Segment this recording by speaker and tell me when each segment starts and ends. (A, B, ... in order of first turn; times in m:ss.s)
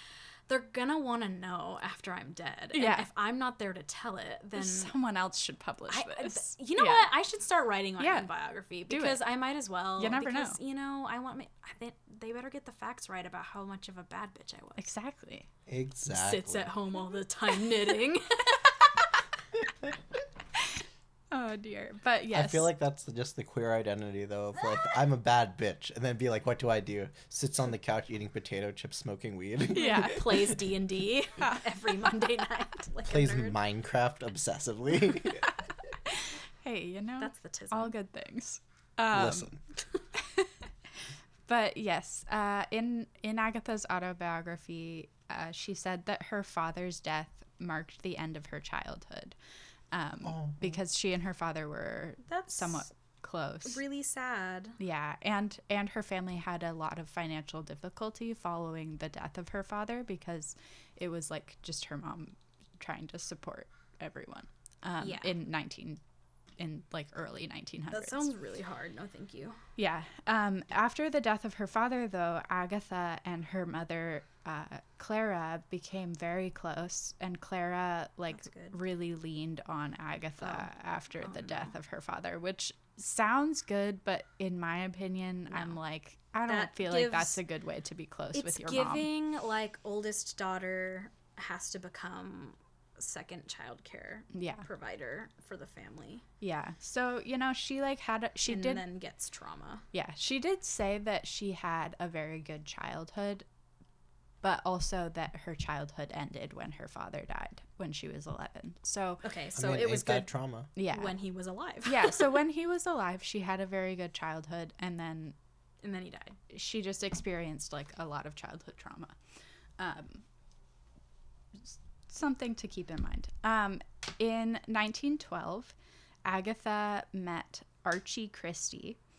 0:00.5-0:04.9 A
0:02.7-0:03.1 B
0:04.6-0:07.1 B
0:05.9-0:14.8 A
0:08.0-0:08.3 B
0:08.9-0:09.2 B
0:10.0-0:10.6 B
0:14.8-0:15.5 B
0:15.7-0:16.7 C
0:16.1-0:18.9 A
0:21.3-0:22.7 B
0:22.3-0:30.6 C
0:29.7-0:30.5 B
0:29.8-0:33.6 A
0:33.1-0:35.5 C
0:36.1-0:39.5 B
0:37.2-0:37.9 A
0:39.1-0:39.6 C
0:40.2-0:40.5 B
0:41.5-0:49.4 B
0:49.9-0:53.8 B
0:50.3-0:50.8 C
0:52.3-0:52.9 A
0:53.6-0:54.8 A
0:54.8-1:06.0 B
1:05.0-1:05.3 A
1:06.6-1:08.3 B
1:07.9-1:09.6 A
1:09.8-1:29.1 B
1:18.3-1:18.8 A
1:20.4-1:20.7 A
1:21.2-1:21.7 A
1:25.5-1:25.8 A
1:26.5-1:27.4 A
1:28.3-1:36.2 A
1:34.3-1:34.7 B
1:36.4-1:38.8 B
1:38.5-1:39.9 A
1:39.9-1:43.4 B
1:44.4-1:49.2 B
1:49.2-1:50.3 A
1:49.6-1:50.7 C
1:50.8-1:51.2 B
1:50.9-1:52.4 A
1:51.8-1:55.4 B
1:55.8-1:56.4 A
1:56.5-1:59.1 B
1:59.8-2:00.2 B
2:01.6-2:09.0 B